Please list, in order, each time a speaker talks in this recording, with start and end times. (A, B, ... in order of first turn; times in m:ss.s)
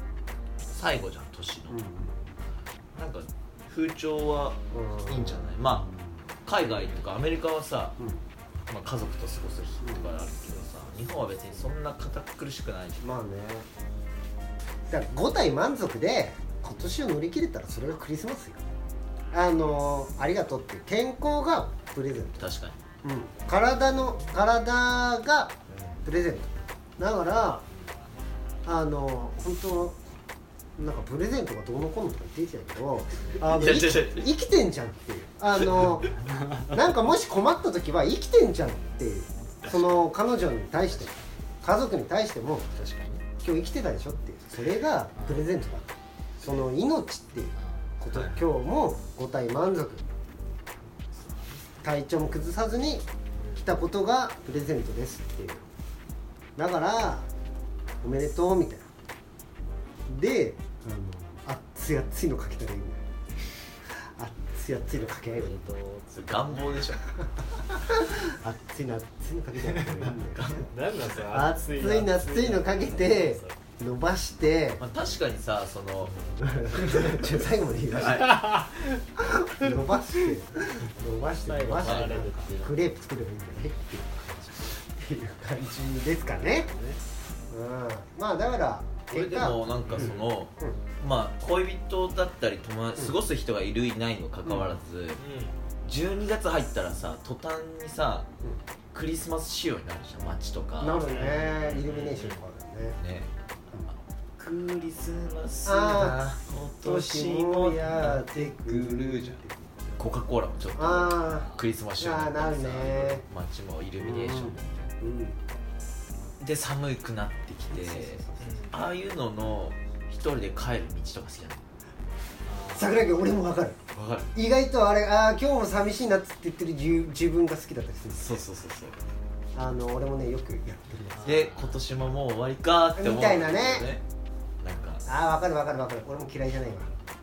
0:00.7-0:01.8 A
0:01.7-0:02.2 B
0:02.9-0:05.9 A
0:04.7-0:06.2 B
0:06.4-0:08.0 A
0:08.0-0:08.2 B
0:08.7-0:13.0 A
0:09.8-0:10.1 B
0:13.0-0:13.7 B
0:14.9-0:18.6 B
0:19.3-0:22.5 B
0:22.4-0:22.8 A
0:23.0-0:27.6 B
0:28.6-0:30.0 B
0:30.8-0:42.7 B
0:33.4-0:34.3 A
0:42.8-0:43.2 C
0:43.4-0:50.0 B
0:45.2-0:45.5 C
0:47.6-0:48.4 C
0:51.1-0:51.7 C
0:51.8-0:53.1 B
0:53.4-0:53.7 C
0:53.6-0:55.7 B
0:56.6-0:57.3 B
0:58.0-0:58.9 B
1:00.1-1:03.0 B
1:04.0-1:05.7 B
1:05.3-1:06.4 C
1:06.1-1:07.1 A
1:07.2-1:10.6 B
1:10.1-1:10.7 A
1:10.6-1:13.6 C
1:11.3-1:14.8 B
1:14.8-1:16.2 A
1:16.1-1:18.6 B
1:18.0-1:18.8 A
1:18.2-1:18.7 C
1:19.2-1:26.7 B
1:21.5-1:22.9 C
1:21.8-1:22.2 A
1:26.2-1:27.0 C
1:27.5-1:30.8 B
1:29.1-1:35.2 A
1:29.9-1:30.2 C
1:34.5-1:34.8 B
1:35.2-1:35.5 C
1:35.8-1:38.3 A
1:38.9-1:41.1 A
1:40.8-1:43.0 B
1:41.1-1:42.4 C
1:43.0-1:43.3 A
1:44.4-1:54.9 A
1:45.7-1:46.2 B
1:46.8-1:49.8 B
1:50.8-1:53.2 B
1:51.2-1:51.6 C
1:54.0-1:55.4 B
1:56.4-2:01.6 A
1:57.7-1:58.6 B
1:58.4-1:58.8 C
2:02.4-2:03.1 C
2:02.7-2:03.8 B
2:03.9-2:04.4 A
2:04.3-2:08.4 B
2:08.2-2:09.0 A
2:09.6-2:11.4 B
2:11.1-2:11.8 C
2:11.2-2:14.0 A
2:13.0-2:13.9 B
2:14.6-2:15.0 A
2:15.1-2:17.0 B